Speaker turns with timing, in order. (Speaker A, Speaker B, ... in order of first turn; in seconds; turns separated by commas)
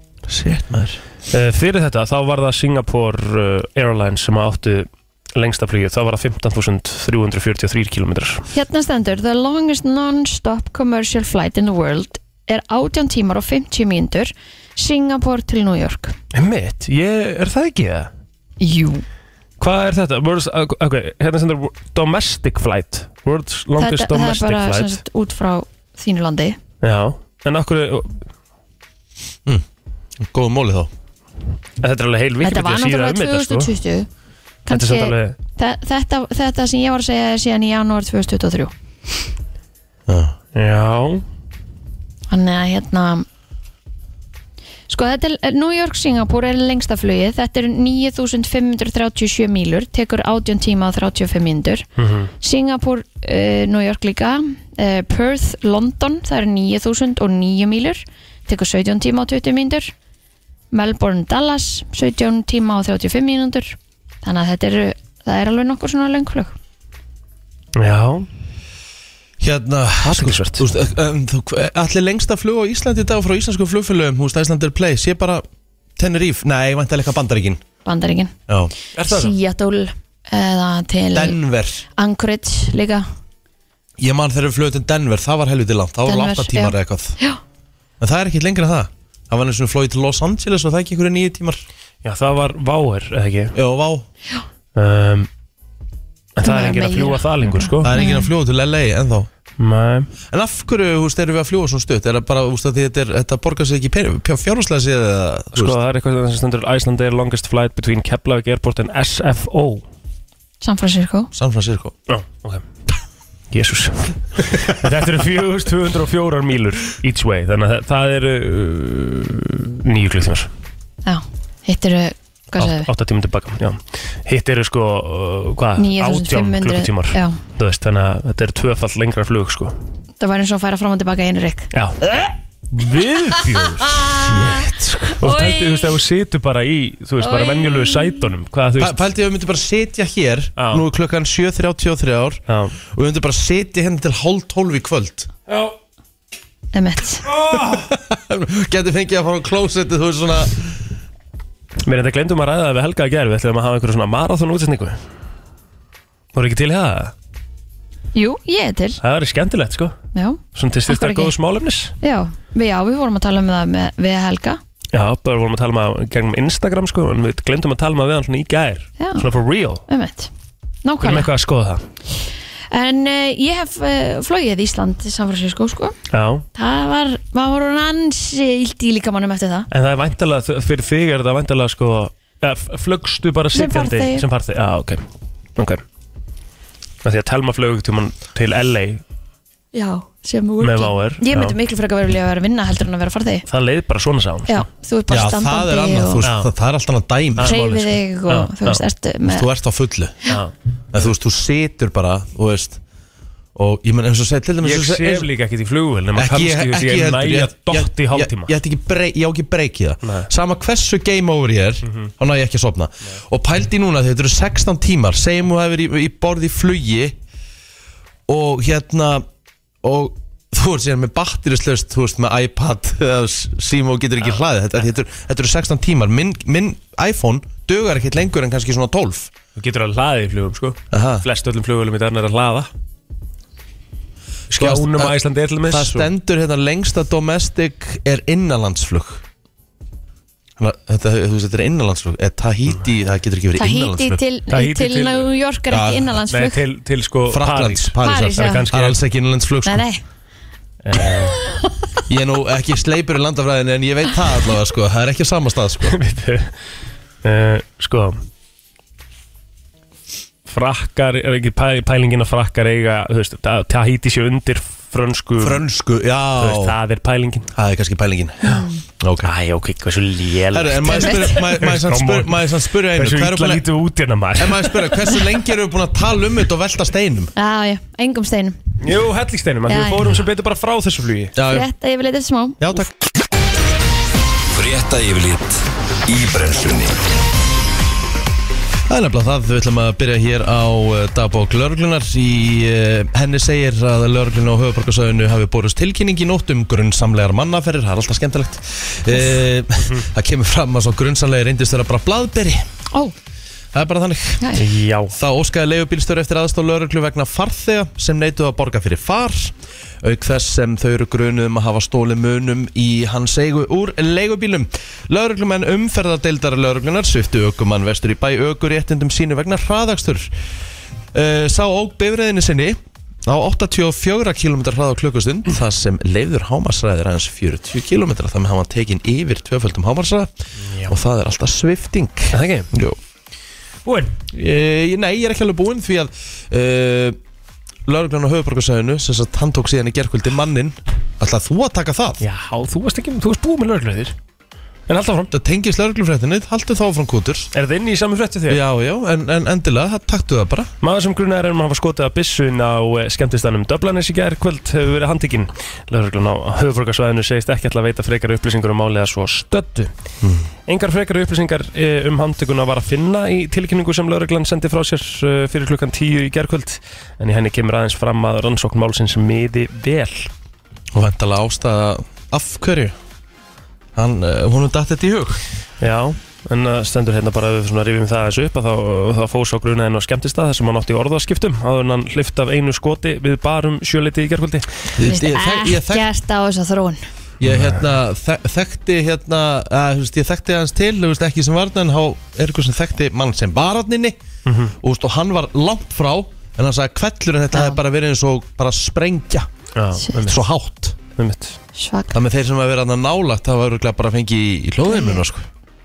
Speaker A: 0.3-1.0, Speaker B: 1.3-8.4, Speaker C: 8.5-16.1, Speaker B: 16.3-18.1, Speaker C: 18.6-19.0, Speaker B: 19.6-25.0, Speaker C: 23.8-26.6, Speaker B: 26.8-28.2, Speaker A: 30.2-30.9, Speaker B: 31.8-33.7, Speaker C: 32.4-34.1, Speaker C: 34.7-38.7, Speaker B: 34.7-35.4, Speaker A: 40.1-40.4, Speaker B: 40.5-41.2, Speaker C: 42.3-43.2, Speaker C: 44.9-51.9, Speaker B: 52.0-52.3, Speaker C: 52.4-59.9, Speaker C: 60.7-66.5, Speaker B: 67.8-68.3, Speaker A: 69.4-75.4, Speaker B: 70.0-70.6, Speaker A: 76.0-77.6, Speaker C: 77.8-78.3, Speaker A: 78.5-78.7, Speaker B: 78.9-79.3, Speaker C: 79.0-81.4, Speaker A: 81.1-81.8, Speaker C: 81.9-83.1, Speaker A: 84.0-87.2, Speaker C: 86.0-87.4, Speaker A: 88.0-91.6, Speaker B: 92.0-93.5, Speaker A: 93.5-94.0, Speaker B: 94.8-95.3, Speaker B: 96.4-97.9, Speaker C: 96.4-98.3, Speaker A: 97.8-99.3, Speaker B: 99.6-100.1, Speaker A: 100.3-105.8, Speaker B: 105.5-109.8, Speaker C: 110.6-111.3, Speaker A: 111.3-111.9, Speaker B: 112.1-112.6, Speaker B: 113.5-120.5, Speaker C: 121.0-122.9, Speaker B: 122.6-129.7, Speaker C: 125.8-127.4, Speaker C: 130.2-131.7, Speaker B: 131.7-134.0, Speaker C: 133.9-135.9, Speaker A: 134.1-135.2, Speaker B: 135.2-139.0, Speaker C: 137.2-138.3, Speaker A: 138.8-145.3, Speaker B: 140.6-140.8, Speaker B: 142.5-142.8, Speaker B: 145.5-145.7, Speaker C: 146.7-147.2, Speaker B: 147.2-147.9, Speaker A: 147.5-150.7, Speaker B: 151.8-155.0, Speaker B: 156.3-157.1, Speaker C: 158.1-159.0, Speaker B: 159.0-159.9, Speaker C: 160.1-161.3, Speaker B: 160.5-161.9, Speaker C: 162.0-164.6, Speaker B: 164.9-169.8, Speaker C: 169.9-170.3, Speaker C: 170.8-171.3, Speaker B: 171.0-171.8, Speaker C: 172.7-175.9, Speaker B: 176.1-176.4, Speaker C: 176.5-179.7, Speaker B: 179.7-185.0, Speaker C: 183.5-184.2, Speaker B: 185.6-185.8, Speaker B: 187.0-189.0, Speaker C: 189.7-193.4, Speaker B: 190.6-191.6, Speaker B: 193.5-194.6, Speaker C: 194.5-196.2, Speaker A: 195.1-197.6, Speaker B: 196.2-196.5, Speaker B: 197.4-198.8, Speaker C: 197.4-199.4, Speaker A: 199.2-200.2, Speaker A: 200.9-202.8, Speaker A: 203.5-205.3, Speaker B: 204.6-208.5, Speaker A: 206.1-217.2, Speaker A: 218.3-219.2, Speaker A: 219.8-229.3, Speaker B: 229.6-232.7, Speaker A: 230.9-231.2, Speaker B: 234.5-236.1, Speaker A: 234.5-235.2, Speaker A: 235.7-239.2, Speaker A: 240.6-244.2, Speaker C: 243.6-246.6, Speaker B: 244.5-245.3, Speaker A: 245.7-246.2, Speaker B: 246.3-249.0, Speaker A: 247.3-249.8, Speaker C: 248.0-248.7, Speaker C: 249.7-250.0, Speaker B: 250.8-251.4, Speaker C: 251.3-251.8, Speaker A: 252.1-256.0, Speaker B: 255.9-256.5, Speaker B: 257.2-258.2, Speaker B: 260.5-265.6, Speaker A: 265.4-266.7, Speaker B: 266.4-267.5, Speaker A: 267.5-269.3, Speaker C: 268.4-268.8, Speaker B: 269.2-275.1, Speaker A: 270.5-273.6, Speaker C: 270.9-271.3, Speaker A: 274.4-277.3, Speaker C: 277.4-278.6, Speaker B: 278.8-281.3, Speaker C: 279.7-280.1, Speaker A: 281.4-281.7, Speaker C: 281.4-282.6, Speaker A: 282.6-282.9, Speaker D: 284.5-287.0, Speaker A: 288.9-302.6, Speaker A: 303.7-304.6, Speaker B: 304.6-305.1, Speaker A: 305.1-320.3, Speaker A: 321.1-330.3, Speaker A: 330.8-333.0, Speaker B: 332.3-332.7, Speaker B: 333.8-334.2, Speaker A: 334.3-337.2, Speaker A: 337.9-342.2, Speaker B: 342.2-344.1, Speaker B: 344.9-345.3, Speaker A: 345.3-347.5, Speaker B: 347.5-348.6, Speaker A: 348.5-350.7, Speaker B: 350.8-359.9, Speaker A: 360.2-360.5, Speaker B: 360.7-370.3, Speaker A: 370.9-372.9, Speaker A: 373.9-375.4, Speaker B: 375.8-384.7, Speaker A: 384.9-386.1, Speaker C: 385.0-387.0, Speaker A: 387.4-394.2, Speaker B: 387.4-387.7, Speaker B: 394.4-394.7, Speaker A: 394.8-399.5, Speaker C: 397.5-397.8, Speaker B: 399.8-400.4, Speaker A: 400.2-401.0, Speaker B: 401.1-401.6, Speaker C: 401.7-402.2, Speaker A: 402.1-405.5, Speaker C: 404.9-405.2